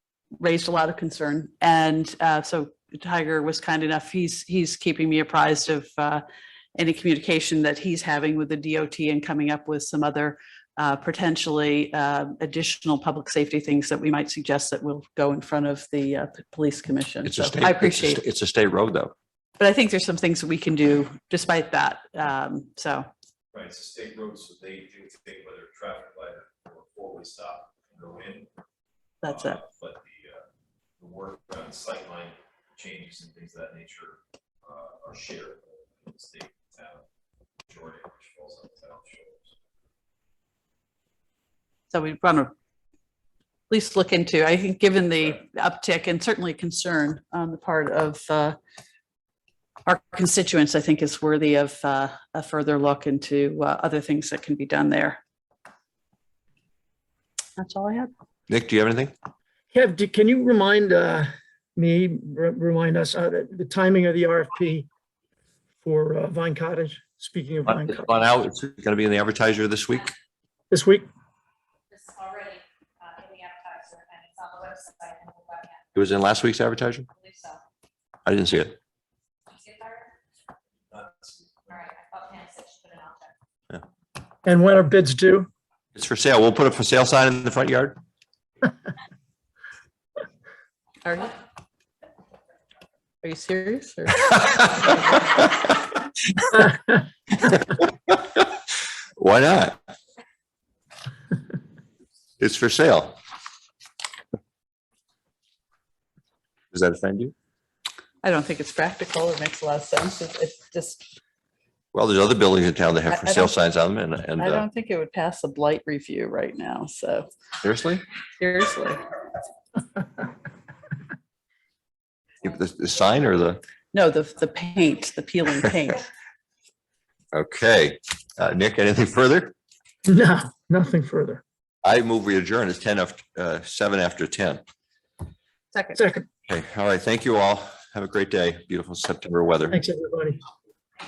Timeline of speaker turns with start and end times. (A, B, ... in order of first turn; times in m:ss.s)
0:00.4-0:06.2 A
0:06.8-0:18.2 A
0:17.2-0:19.1 B
0:19.6-0:23.1 A
0:23.5-0:28.5 C
0:29.2-0:29.6 A
0:29.2-0:30.4 C
0:31.0-0:37.0 C
0:37.6-0:39.5 C
0:41.9-0:42.5 A
0:43.7-0:48.6 A
0:49.9-0:55.2 A
0:57.6-0:58.1 A
0:58.5-0:59.1 B
0:59.7-1:04.9 D
1:05.8-1:08.1 D
1:07.7-1:10.1 B
1:10.7-1:11.1 D
1:11.9-1:15.8 E
1:16.0-1:17.1 B
1:17.2-1:17.6 E
1:18.3-1:18.8 B
1:19.5-1:20.1 E
1:20.9-1:21.7 C
1:21.7-1:23.3 E
1:24.4-1:25.5 D
1:26.0-1:28.0 B
1:31.0-1:31.4 A
1:33.2-1:34.9 A
1:34.3-1:35.6 B
1:37.3-1:38.6 B
1:39.2-1:39.8 B
1:42.4-1:43.2 B
1:46.7-1:47.3 B
1:48.2-1:51.1 A
1:51.9-1:54.7 B
1:53.1-1:53.6 A
1:54.4-1:57.3 A
1:57.6-1:58.0 B
1:58.4-1:59.0 A
2:02.4-2:03.6 B
2:03.9-2:06.1 A
2:07.3-2:09.5 B
2:10.1-2:11.4 D
2:11.8-2:14.6 B
2:15.7-2:16.0 A
2:16.0-2:16.3 D
2:16.5-2:19.8 B
2:19.7-2:20.4 D